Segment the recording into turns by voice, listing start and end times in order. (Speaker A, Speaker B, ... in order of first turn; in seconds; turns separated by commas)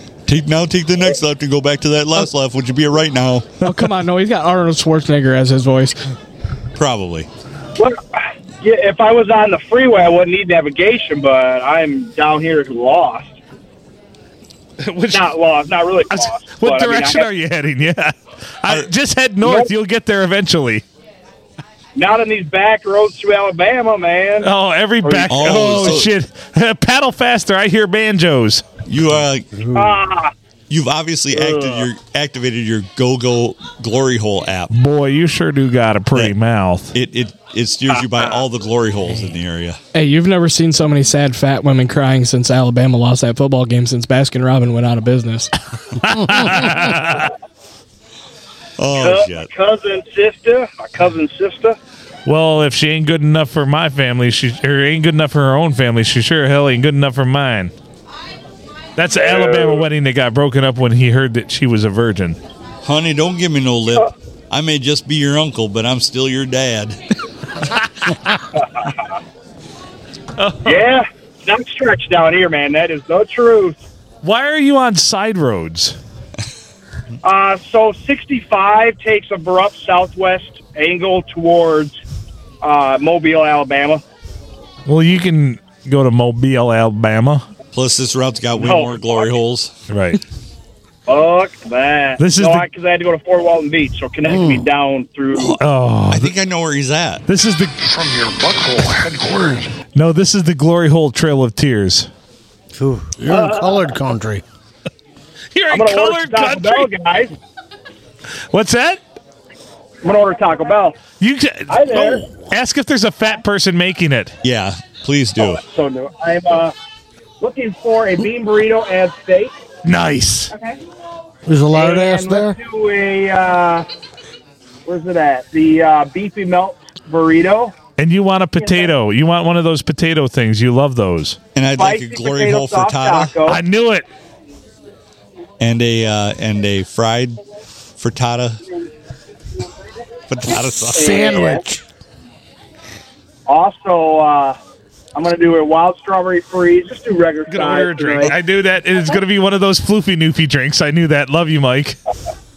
Speaker A: 0.3-3.5, Speaker B: 3.6-6.0, Speaker A: 6.7-7.3, Speaker C: 7.8-13.3, Speaker D: 14.8-15.3, Speaker C: 15.1-17.3, Speaker D: 16.1-20.8, Speaker C: 19.4-19.7, Speaker C: 21.9-24.5, Speaker D: 24.4-28.6, Speaker C: 25.0-26.0, Speaker A: 25.3-26.1, Speaker A: 28.9-29.7, Speaker C: 29.7-30.3, Speaker A: 30.7-34.7, Speaker C: 31.3-31.9, Speaker D: 34.7-36.9, Speaker A: 36.9-39.8, Speaker C: 37.9-38.4, Speaker B: 39.9-45.5, Speaker D: 45.9-47.3, Speaker A: 48.8-49.5, Speaker C: 48.9-51.8, Speaker D: 52.2-57.7, Speaker D: 59.0-62.4, Speaker C: 59.1-59.8, Speaker A: 62.8-67.0, Speaker D: 67.7-68.1, Speaker D: 70.4-70.9, Speaker C: 70.6-73.8, Speaker D: 74.2-76.0, Speaker C: 77.2-82.0, Speaker C: 82.6-84.0, Speaker D: 84.8-87.5, Speaker A: 87.7-89.7, Speaker C: 88.5-89.3, Speaker D: 89.9-90.2, Speaker C: 91.1-95.6, Speaker D: 92.2-92.7, Speaker E: 94.3-94.6, Speaker D: 95.6-96.3, Speaker A: 96.1-97.2, Speaker D: 97.3-98.4, Speaker D: 99.9-102.1, Speaker E: 102.7-104.4, Speaker C: 103.2-103.9, Speaker D: 105.5-106.9, Speaker C: 105.7-107.3, Speaker D: 108.5-109.0, Speaker C: 110.0-111.0, Speaker D: 111.2-114.4, Speaker C: 111.7-112.2, Speaker A: 114.4-115.6, Speaker C: 115.4-116.7, Speaker C: 117.4-119.5, Speaker D: 119.8-120.5, Speaker C: 120.5-120.8, Speaker E: 121.5-122.6, Speaker C: 121.7-123.9, Speaker C: 124.8-127.7, Speaker D: 128.0-131.4, Speaker A: 131.5-133.4, Speaker C: 131.8-133.6, Speaker D: 133.5-134.1, Speaker A: 135.6-137.4, Speaker A: 138.0-138.6, Speaker A: 140.3-141.4, Speaker E: 140.9-141.8, Speaker C: 140.9-141.6, Speaker C: 143.4-144.6, Speaker C: 145.1-148.3, Speaker D: 147.5-152.0